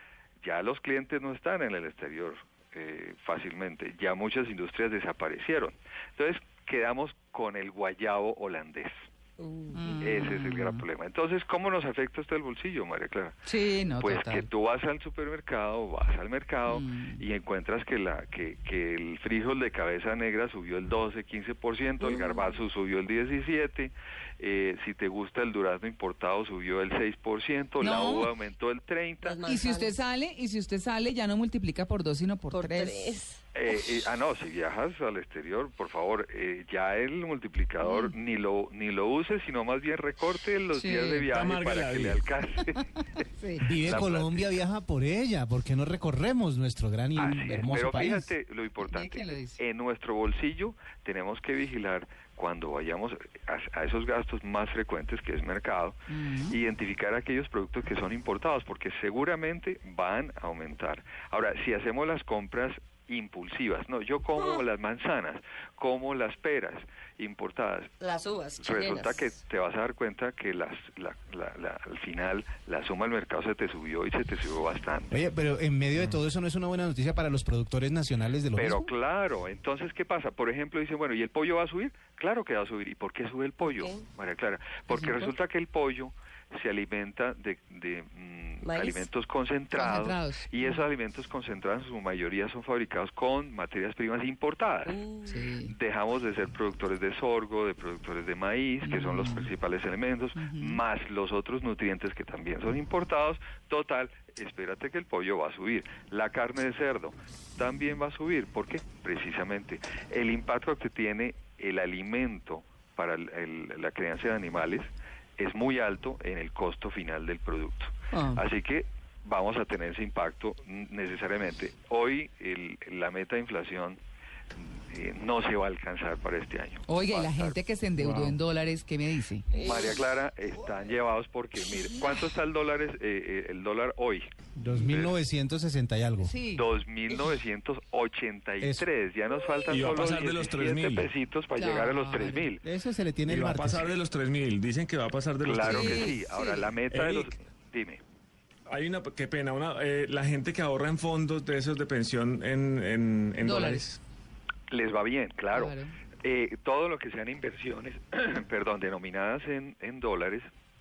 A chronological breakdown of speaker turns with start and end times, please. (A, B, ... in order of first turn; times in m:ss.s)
0:00.4-0:09.0 A
0:09.4-0:10.2 B
0:09.7-0:10.8 C
0:10.0-0:13.4 A
0:13.4-0:14.5 C
0:14.0-0:29.4 A
0:16.6-0:17.2 C
0:22.0-0:22.5 B
0:27.8-0:28.3 C
0:29.2-0:30.0 B
0:29.4-0:33.1 C
0:32.5-0:33.4 B
0:33.5-0:44.6 A
0:40.7-0:41.3 C
0:41.3-0:42.3 D
0:43.4-0:43.7 C
0:43.6-0:48.3 E
0:47.2-1:08.0 A
0:47.2-0:47.6 C
0:48.8-0:49.6 C
0:56.1-0:56.5 C
1:04.4-1:04.6 B
1:08.0-1:09.3 B
1:08.6-1:15.2 A
1:15.1-1:18.9 E
1:18.6-1:35.0 A
1:23.6-1:24.0 B
1:24.9-1:25.3 C
1:28.6-1:29.1 B
1:29.7-1:30.8 C
1:34.8-1:35.5 B
1:35.3-1:35.7 C
1:35.6-2:04.0 A
1:38.8-1:39.5 C
1:40.4-1:40.8 C
1:58.1-1:58.4 C
2:04.6-2:07.6 A
2:06.8-2:09.5 C
2:08.0-2:08.4 D
2:09.5-2:10.0 B
2:09.6-2:15.1 A
2:14.6-2:16.4 E
2:16.2-2:16.6 C
2:16.5-2:22.6 A
2:18.6-2:18.9 E
2:19.7-2:21.1 D
2:21.6-2:22.5 C
2:22.6-2:23.9 E
2:23.3-2:26.2 D
2:25.4-2:28.0 A
2:25.6-2:26.7 C
2:26.9-2:27.3 D
2:28.7-2:34.0 D
2:33.4-2:33.8 C
2:34.7-2:40.5 A
2:35.5-2:35.9 C